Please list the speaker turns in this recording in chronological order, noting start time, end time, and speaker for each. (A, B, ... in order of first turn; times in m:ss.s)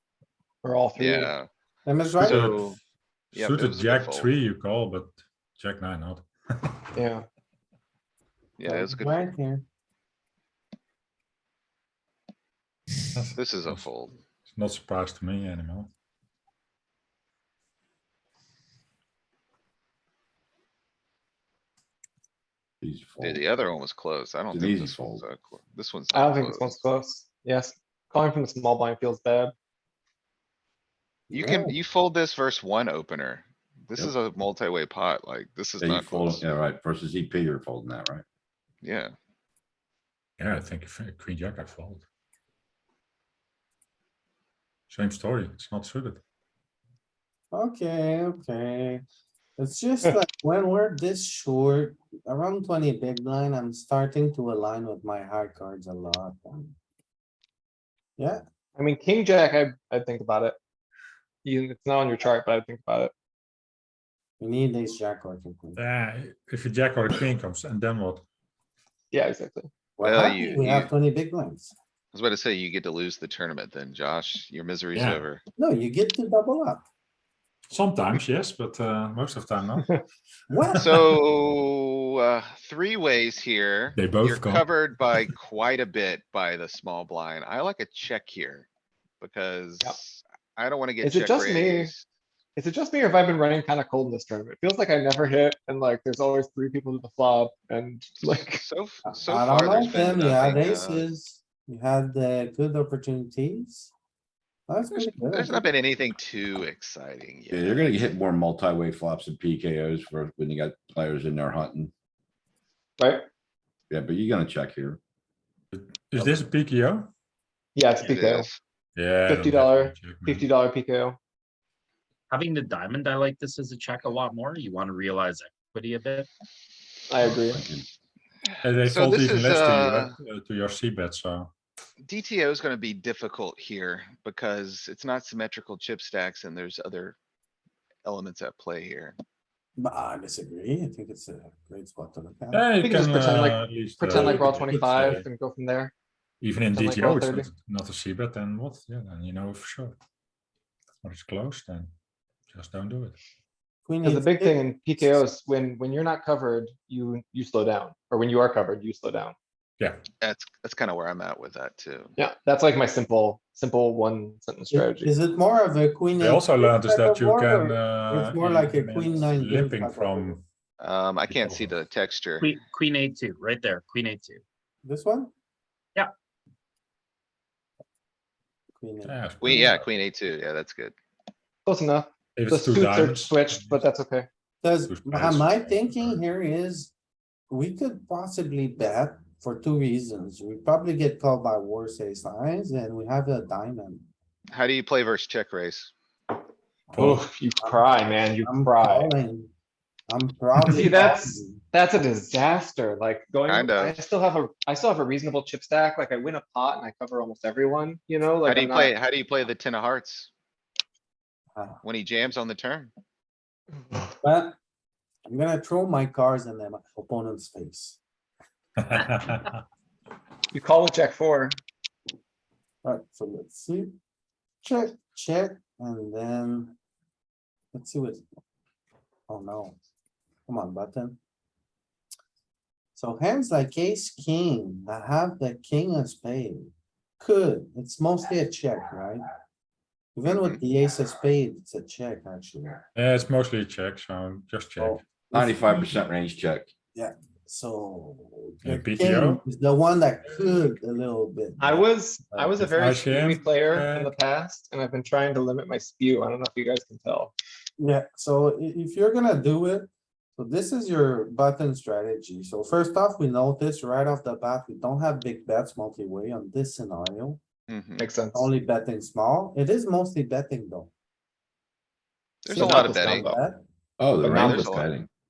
0:00.6-0:01.3 A
0:01.0-0:01.5 B
0:01.9-0:02.6 C
0:02.2-0:02.6 D
0:02.2-0:02.8 B
0:03.3-0:04.3 B
0:03.3-0:06.8 D
0:07.0-0:07.2 A
0:08.6-0:09.3 B
0:08.6-0:09.7 C
0:13.1-0:13.9 D
0:13.4-0:14.2 B
0:14.4-0:15.9 D
0:22.8-0:23.5 E
0:23.2-0:26.8 B
0:24.5-0:25.3 E
0:26.1-0:29.5 A
0:31.3-0:31.7 C
0:31.3-0:36.5 B
0:35.8-0:38.2 E
0:38.8-0:39.1 B
0:40.4-0:42.0 D
0:44.9-0:46.2 D
0:47.5-0:49.0 C
0:49.6-0:56.7 C
0:58.2-0:58.4 C
0:58.8-1:00.6 A
1:01.4-1:03.1 A
1:04.4-1:05.8 C
1:05.8-1:08.2 D
1:09.1-1:09.7 A
1:10.0-1:11.7 C
1:10.0-1:10.9 B
1:12.1-1:15.4 B
1:15.0-1:15.2 D
1:15.6-1:16.8 C
1:17.7-1:20.0 D
1:20.5-1:21.0 C
1:20.8-1:28.7 B
1:24.0-1:24.7 D
1:29.2-1:32.0 B
1:31.0-1:31.9 A
1:32.6-1:38.6 A
1:38.6-1:41.1 B
1:39.1-1:43.9 C
1:44.7-1:45.6 C
1:44.9-1:48.0 B
1:47.5-1:51.9 E
1:53.0-1:53.3 A
1:53.9-1:55.0 E
1:55.7-1:57.1 D
1:57.8-1:58.5 A
1:58.0-1:58.6 B
1:59.0-2:00.4 D
1:59.3-2:01.2 A
2:02.3-2:06.3 F
2:07.1-2:07.6 A
2:07.2-2:07.9 E
2:08.6-2:11.5 D
2:08.8-2:10.1 B
2:12.0-2:17.2 B
2:18.0-2:19.2 B
2:19.8-2:22.7 C
2:22.5-2:25.2 D
2:22.8-2:25.9 A
2:24.1-2:24.7 C
2:26.4-2:30.0 D
2:26.7-2:27.5 A
2:31.0-2:31.9 D
2:32.5-2:33.2 D
2:33.9-2:35.2 C
2:34.0-2:39.4 A
2:40.2-2:42.2 B
2:42.2-2:45.1 A
2:44.7-2:50.4 C
2:46.2-2:50.4 D
2:50.8-2:52.5 B
2:51.4-2:51.7 D
2:52.4-2:54.4 F
2:54.8-2:55.3 C
2:58.8-2:59.7 C
2:59.0-2:59.8 D
2:59.4-3:01.0 B
3:01.7-3:04.3 A
3:02.4-3:03.8 D
3:04.6-3:06.9 C
3:04.9-3:06.2 D
3:07.5-3:14.1 C
3:14.5-3:15.9 B
3:17.0-3:17.2 D
3:17.0-3:19.1 A
3:17.6-3:17.9 C
3:18.4-3:19.5 C
3:20.1-3:21.6 C
3:20.7-3:28.9 A
3:23.5-3:24.0 B
3:28.4-3:30.3 B
3:31.6-3:31.8 C
3:31.8-3:32.9 B
3:34.2-3:34.6 C
3:35.3-3:38.0 C
3:38.8-3:39.5 D
3:40.5-3:41.6 A
3:42.8-3:44.0 C
3:44.6-3:46.8 C
3:47.7-3:48.2 C
3:49.3-3:49.8 C
3:50.5-3:51.2 C
3:53.0-3:59.3 C
4:00.2-4:02.8 C
4:00.3-4:00.6 B
4:03.0-4:05.0 D
4:04.8-4:05.9 C
4:05.4-4:06.7 E
4:06.9-4:12.5 C
4:08.6-4:09.4 D
4:11.6-4:17.3 A
4:12.6-4:14.2 D
4:17.8-4:27.4 C
4:27.7-4:28.1 B
4:28.0-4:28.5 A
4:28.3-4:30.9 C
4:32.4-4:33.3 B
4:32.5-4:33.6 C
4:32.5-4:33.4 A
4:34.0-4:35.1 E
4:34.2-4:34.7 A
4:34.2-4:34.9 B